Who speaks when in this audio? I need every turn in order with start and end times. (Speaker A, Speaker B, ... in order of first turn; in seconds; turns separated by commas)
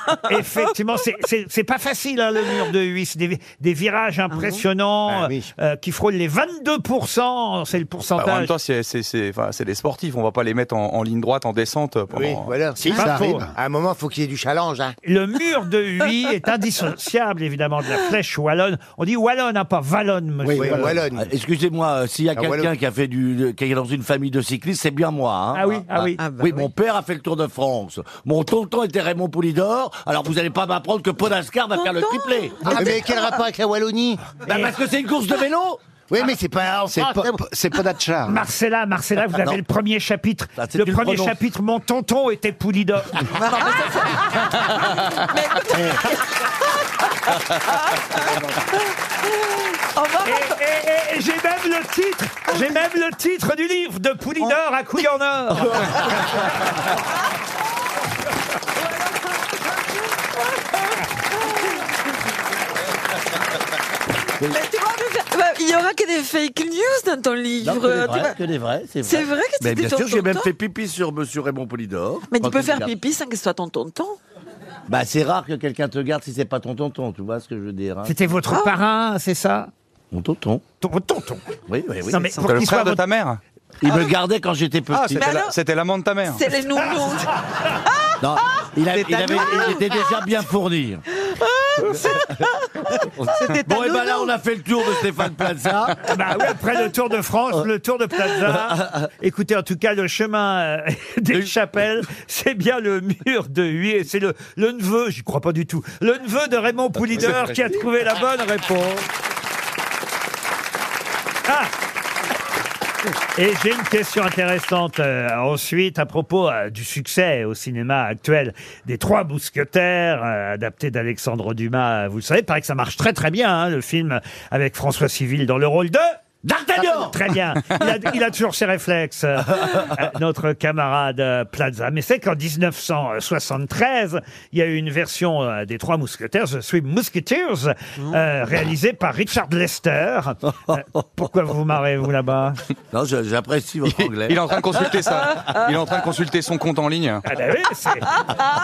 Speaker A: 0.2-8.5, Speaker B: 4.3-4.6, Speaker C: 5.1-5.5, Speaker D: 8.2-12.7, Speaker C: 12.1-14.9, Speaker A: 12.8-13.4, Speaker E: 12.9-13.5, Speaker A: 15.0-21.0, Speaker E: 20.4-21.0, Speaker C: 20.6-21.3, Speaker F: 21.1-33.0, Speaker C: 22.3-22.7, Speaker A: 25.5-26.2, Speaker B: 26.2-26.7, Speaker G: 31.8-32.6, Speaker C: 32.6-34.3, Speaker F: 34.5-35.8, Speaker C: 36.1-37.4, Speaker E: 36.9-38.4, Speaker A: 38.3-43.2, Speaker F: 40.6-41.4, Speaker B: 43.4-43.9, Speaker G: 43.6-46.3, Speaker G: 47.9-48.3, Speaker G: 49.8-50.5, Speaker A: 50.2-55.9, Speaker G: 64.4-68.4, Speaker F: 67.6-72.9, Speaker G: 69.0-70.5, Speaker G: 72.3-74.2, Speaker F: 74.9-78.1, Speaker A: 78.0-79.7, Speaker F: 80.1-80.6, Speaker A: 80.8-81.5, Speaker F: 81.7-82.2, Speaker A: 82.1-83.0, Speaker B: 82.2-82.6, Speaker D: 82.4-83.4, Speaker F: 83.8-85.4, Speaker D: 84.9-86.4, Speaker G: 85.2-85.5, Speaker G: 86.3-87.3, Speaker F: 88.2-91.0, Speaker B: 88.8-90.1, Speaker B: 91.8-94.3, Speaker F: 93.2-96.0, Speaker A: 96.1-109.1, Speaker F: 98.4-99.1, Speaker A: 111.5-111.7, Speaker A: 113.3-126.2, Speaker F: 126.4-127.2, Speaker A: 126.8-142.6, Speaker F: 129.6-129.9, Speaker F: 142.9-145.0, Speaker D: 144.0-147.2, Speaker A: 147.2-148.2